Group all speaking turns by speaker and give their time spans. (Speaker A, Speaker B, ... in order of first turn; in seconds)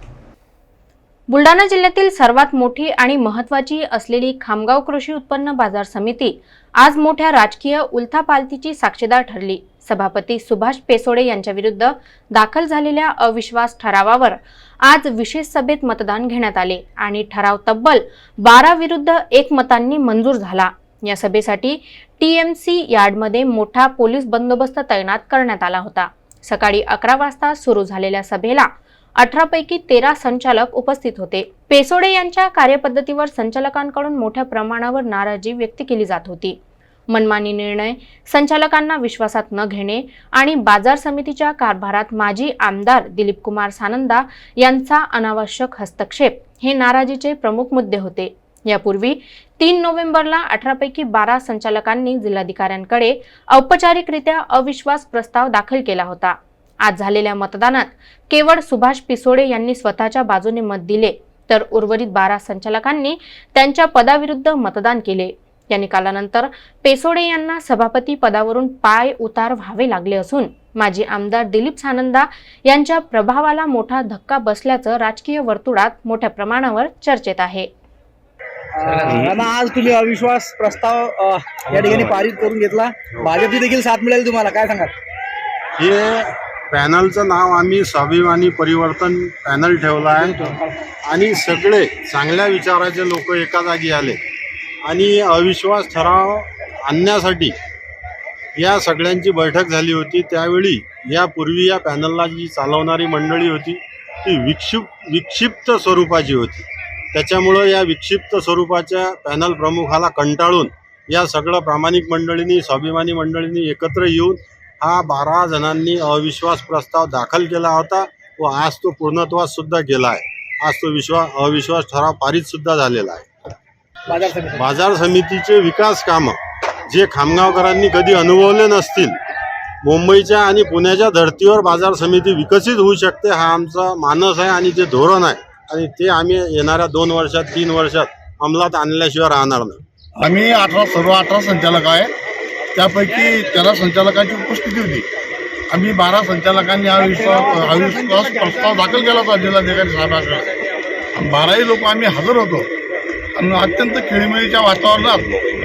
Speaker A: 1.3-36.6, 37.1-77.7
Speaker B: 78.7-84.9, 90.2-90.7, 124.1-124.7, 146.9-149.0
Speaker C: 85.8-94.2, 94.8-97.5, 98.6-123.3, 124.6-126.4, 126.9-129.2, 129.8-139.8
Speaker D: 140.2-142.1, 142.8-145.1, 145.7-150.5, 151.2-152.7, 153.3-155.4